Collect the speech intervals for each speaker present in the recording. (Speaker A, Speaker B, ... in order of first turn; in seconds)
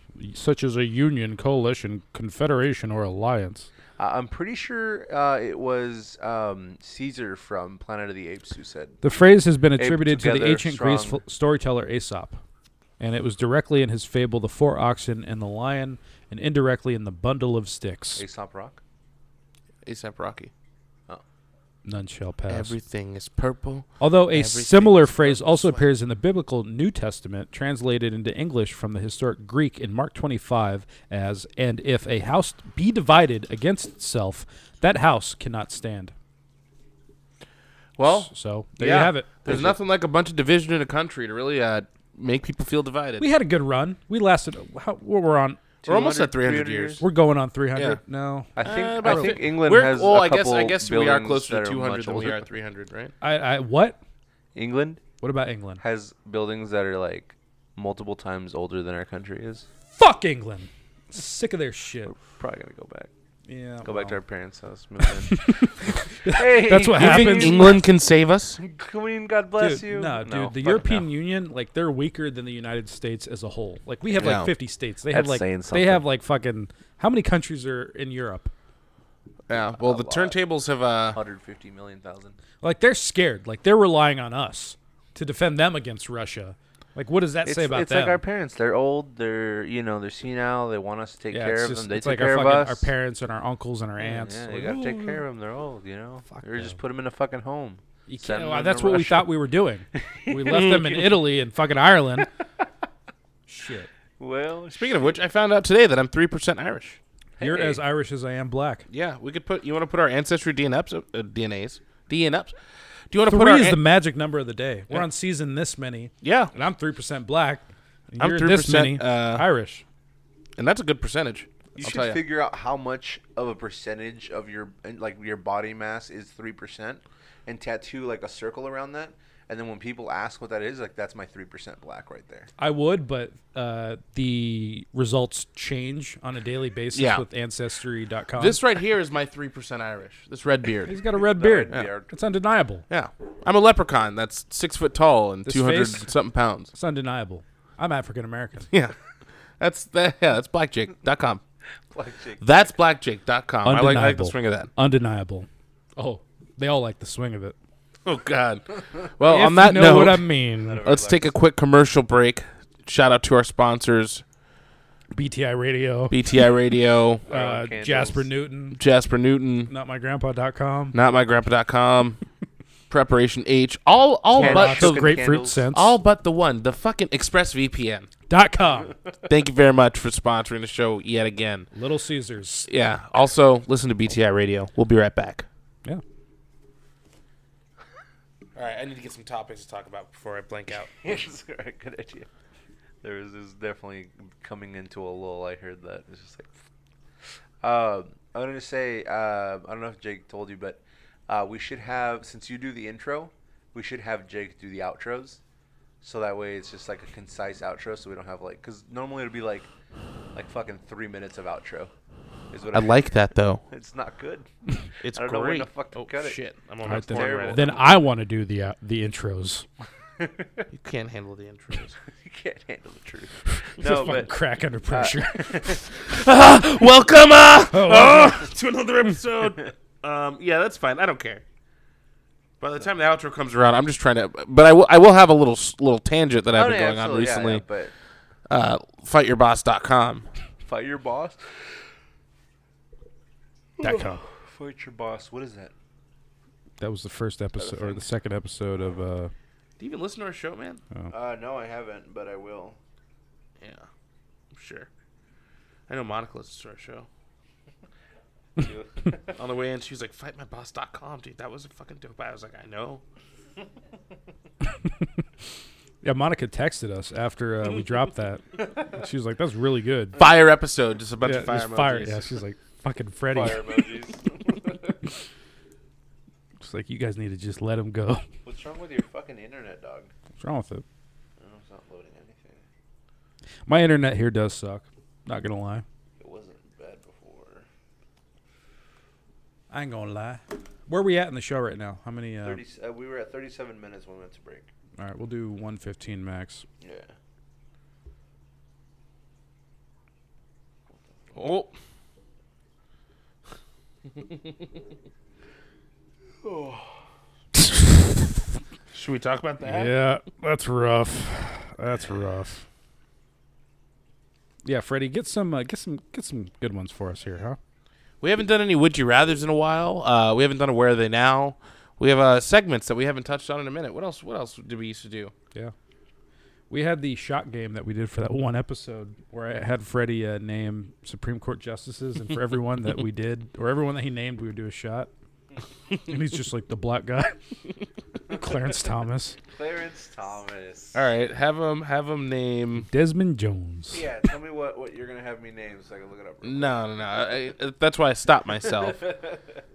Speaker A: 0.1-3.7, 9.0-12.4, 13.0-18.2, 21.8-22.7, 24.0-36.1, 38.0-39.7, 43.2-45.6, 47.0-49.4, 53.2-54.0, 55.2-55.8, 60.0-62.1, 63.5-64.2, 65.3-67.8, 69.6-78.5, 82.6-88.2, 91.3-94.9, 96.3-96.7, 98.1-102.3, 103.5-103.9, 107.4-108.8, 113.3-119.8, 132.6-138.6, 140.9-142.8, 145.4-146.1, 146.7-148.7, 153.6-157.6, 159.2-160.8, 165.1-166.2, 167.3-168.8, 169.7-170.9, 174.3-175.9, 178.3-178.9, 181.7-182.7, 216.8-219.7, 223.8-225.8, 227.7-228.4, 243.8-244.2, 246.8-249.3, 266.0-270.2, 271.2-273.7, 276.6-278.2, 280.4-280.8, 283.7-285.8, 289.7-292.6, 295.0-296.6, 309.6-312.6, 314.6-317.6, 326.7-335.1, 336.0-337.4, 338.3-339.4, 342.8-344.0
Speaker B: 4.0-9.0, 9.8-11.2, 18.1-18.8, 45.8-47.0, 48.5-52.4, 54.5-55.0, 55.8-59.6, 62.1-63.1, 63.8-67.8, 68.6-71.0, 75.1-76.0, 79.5-80.4, 81.1-82.4, 87.4-92.9, 94.0-99.3, 100.1-101.0, 104.2-105.2, 107.4-107.8, 121.8-132.5, 141.2-142.1, 151.9-152.4, 160.6-161.3, 167.3-168.3, 174.3-175.6, 191.0-192.3, 193.0-196.5, 197.6-205.4, 206.0-209.7, 210.3-211.9, 212.5-213.1, 213.7-214.5, 215.1-217.9, 220.2-220.6, 222.1-224.3, 224.9-225.8, 236.5-237.9, 240.6-241.4, 243.8-245.7, 247.6-248.0, 251.1-252.8, 258.6-259.3, 273.3-275.0, 278.4-280.1, 281.4-282.6, 286.2-287.7, 292.4-294.7, 296.8-297.1, 306.4-306.9, 339.5-341.0, 343.9-346.8, 348.7-349.6
Speaker C: 19.8-20.5, 22.5-25.8, 38.0-43.3, 45.8-47.0, 47.7-48.0, 48.6-53.1, 66.9-68.6, 74.1-74.5, 79.5-81.2, 94.6-95.0, 100.5-101.0, 104.7-107.0, 108.9-112.5, 113.1-113.8, 116.2-116.5, 118.2-119.5, 120.6-122.2, 136.9-137.2, 138.4-141.0, 142.9-146.7, 148.7-148.9, 149.6-151.4, 152.4-154.7, 158.0-164.2, 166.1-167.2, 168.8-169.7, 170.9-172.2, 172.9-178.1, 179.3-181.7, 182.7-185.4, 188.5-190.9, 212.7-213.6, 215.0-217.7, 220.7-221.9, 225.9-231.4, 232.6-237.6, 238.5-240.3, 249.8-250.8, 253.6-253.9, 254.5-254.9, 255.9-257.1, 259.3-263.0, 270.1-272.3, 301.3-301.7, 308.9-309.9, 318.2-325.3, 340.9-342.9, 346.4-349.0